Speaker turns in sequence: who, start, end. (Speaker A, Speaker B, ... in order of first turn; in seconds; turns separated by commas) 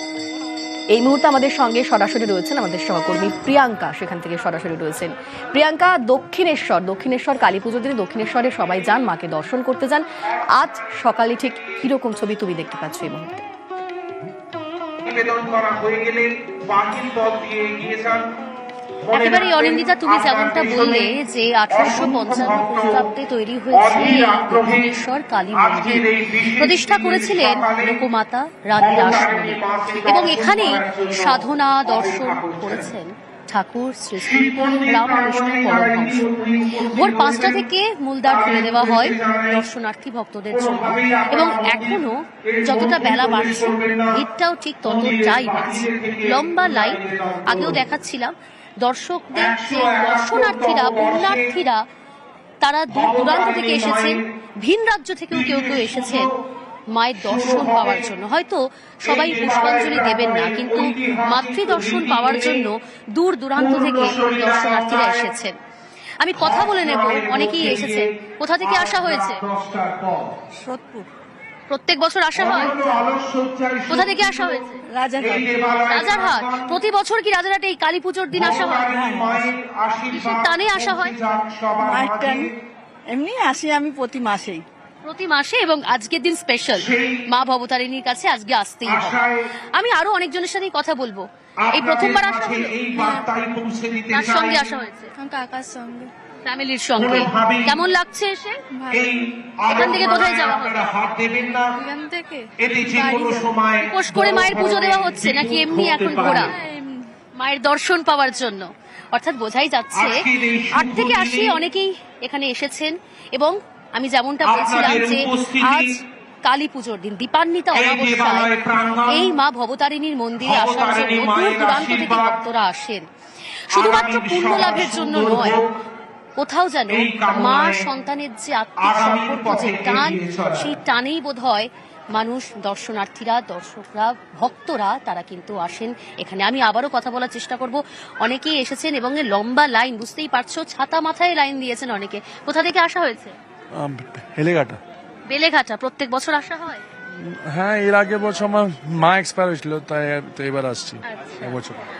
Speaker A: 0.9-10.0, Speaker A: 10.6-13.4, Speaker B: 15.1-18.2, Speaker B: 19.1-21.1, Speaker C: 19.1-51.8, Speaker B: 21.7-23.1, Speaker B: 23.7-25.0, Speaker B: 25.5-28.0, Speaker B: 28.8-32.9, Speaker B: 34.1-37.6, Speaker B: 38.2-39.6, Speaker B: 40.5-42.0, Speaker B: 42.6-44.2, Speaker B: 44.8-47.9, Speaker B: 49.3-51.6, Speaker C: 52.6-56.3, Speaker B: 52.9-54.2, Speaker B: 55.3-56.3, Speaker C: 56.9-65.5, Speaker B: 57.2-58.1, Speaker B: 59.0-62.6, Speaker B: 63.6-65.3, Speaker C: 66.2-69.4, Speaker B: 66.4-68.1, Speaker B: 68.6-70.3, Speaker D: 70.7-71.0, Speaker C: 71.7-73.0, Speaker B: 72.3-76.8, Speaker C: 73.9-74.8, Speaker D: 74.9-75.5, Speaker C: 75.9-79.0, Speaker B: 78.3-82.5, Speaker D: 78.9-79.5, Speaker C: 80.1-81.1, Speaker D: 81.8-82.5, Speaker D: 83.1-84.6, Speaker C: 85.0-89.2, Speaker B: 86.7-87.2, Speaker B: 88.8-89.3, Speaker C: 89.8-92.9, Speaker B: 91.7-94.8, Speaker E: 93.0-93.3, Speaker C: 94.1-95.1, Speaker E: 95.2-96.1, Speaker C: 96.4-98.6, Speaker B: 97.0-97.8, Speaker E: 98.8-99.1, Speaker B: 98.9-101.8, Speaker C: 99.7-100.9, Speaker E: 101.8-103.5, Speaker B: 102.6-106.4, Speaker C: 103.8-106.5, Speaker E: 106.0-107.0, Speaker C: 107.4-118.5, Speaker B: 109.9-111.6, Speaker B: 114.4-115.9, Speaker B: 117.7-119.3, Speaker C: 119.1-123.0, Speaker B: 120.4-122.4, Speaker C: 123.7-125.6, Speaker B: 123.8-125.6, Speaker C: 126.4-143.3, Speaker B: 126.9-127.8, Speaker B: 128.8-130.7, Speaker F: 143.7-144.8, Speaker C: 145.3-146.8, Speaker F: 147.2-151.8, Speaker C: 151.1-151.6